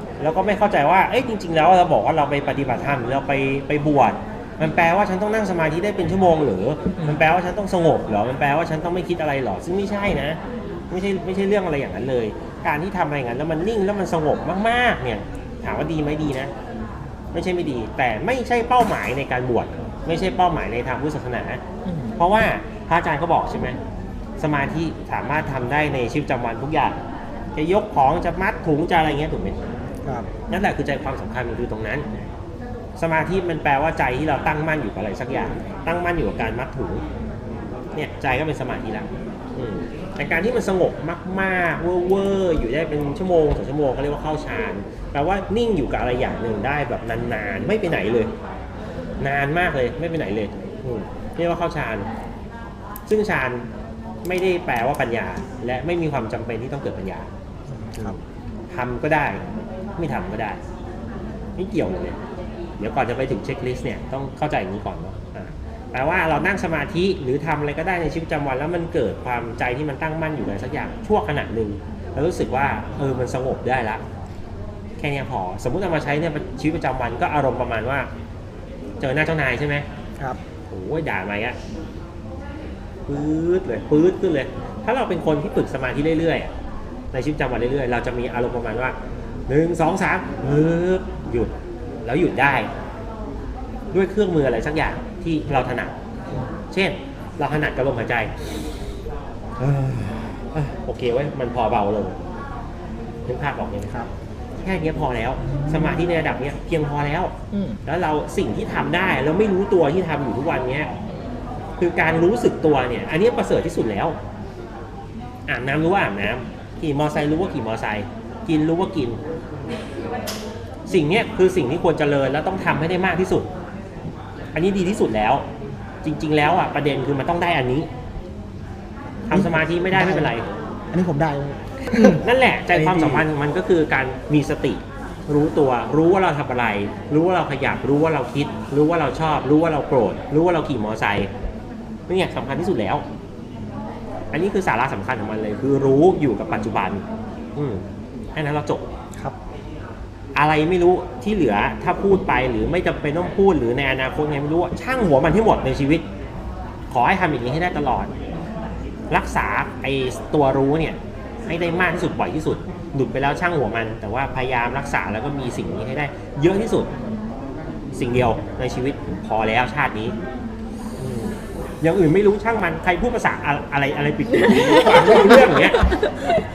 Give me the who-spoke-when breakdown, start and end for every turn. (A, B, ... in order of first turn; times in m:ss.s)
0:00.2-0:10.4 A
0:10.9-0:16.5 A
0:17.3-0:21.6 A
0:22.1-0:23.8 A
0:24.4-0:27.0 A
0:27.5-0:29.6 A
0:30.5-0:32.0 A
0:33.0-0:37.0 A
0:37.9-0:48.3 A
0:49.2-0:52.1 A
0:53.1-0:53.7 A
0:54.2-0:57.3 A
0:57.7-0:58.2 B
0:58.7-1:00.6 A
1:01.6-1:02.2 A
1:02.8-1:14.0 A
1:15.0-1:18.1 A
1:19.0-1:19.8 A
1:20.7-1:21.6 A
1:23.1-1:26.5 A
1:27.1-1:29.0 A
1:29.5-1:31.5 A
1:32.0-1:32.7 A
1:33.9-1:38.5 A
1:39.6-1:42.2 A
1:43.3-1:44.0 A
1:44.6-1:50.9 A
1:51.8-1:54.2 A
1:55.5-1:59.2 A
2:00.9-2:03.5 A
2:04.5-2:05.4 A
2:06.0-2:07.9 A
2:09.2-2:10.4 A
2:09.3-2:10.3 B
2:10.9-2:12.2 B
2:11.9-2:21.3 A
2:12.9-2:13.2 B
2:22.1-2:23.0 A
2:24.3-2:27.0 A
2:27.6-2:27.8 A
2:28.3-2:28.8 A
2:30.3-2:36.0 A
2:36.9-2:38.1 A
2:39.1-2:46.9 A
2:47.9-2:50.2 A
2:51.0-2:56.1 A
2:55.1-2:55.4 B